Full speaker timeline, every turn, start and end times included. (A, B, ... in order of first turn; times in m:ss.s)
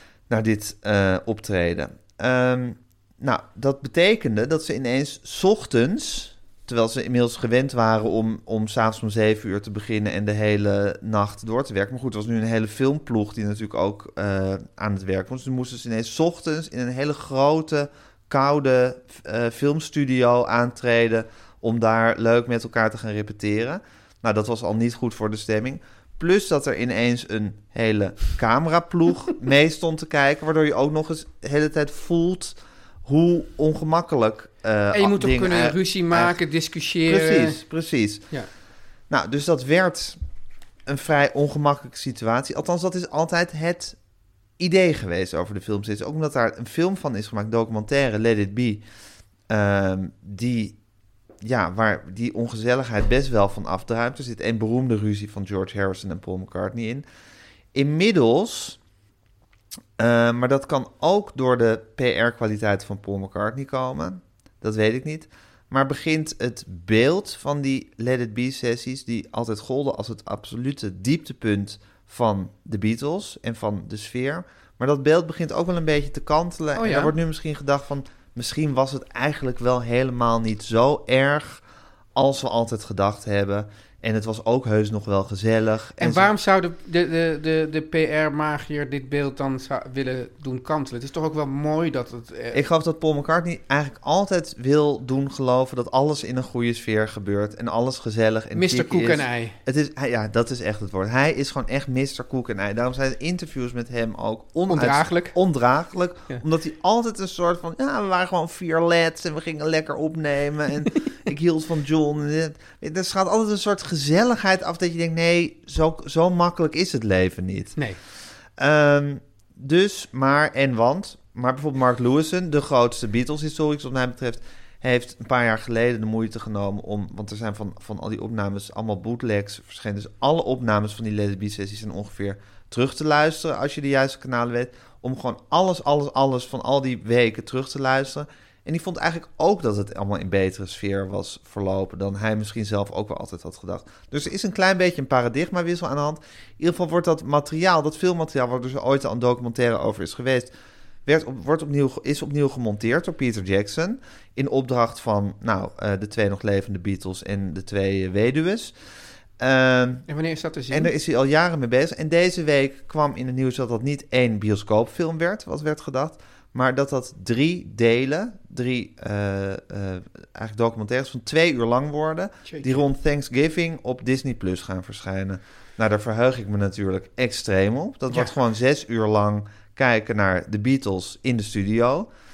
0:00.3-0:36.4 A
0:34.9-0:37.6 B
0:37.0-0:38.3 A
0:39.1-0:40.2 A
0:40.9-0:44.0 A
0:44.6-0:48.8 A
0:49.5-0:50.8 A
0:51.4-0:57.0 A
0:57.7-0:58.8 A
1:00.0-1:21.6 A
1:16.8-1:17.1 B
1:22.2-1:26.3 A
1:26.0-1:32.6 B
1:32.5-1:57.8 A
1:38.6-1:39.6 B
1:44.7-1:45.4 B
1:58.6-2:30.5 A
2:31.1-2:38.8 A
2:39.4-2:40.1 A
2:40.1-2:40.9 B
2:40.7-3:02.1 A
2:52.5-2:52.8 B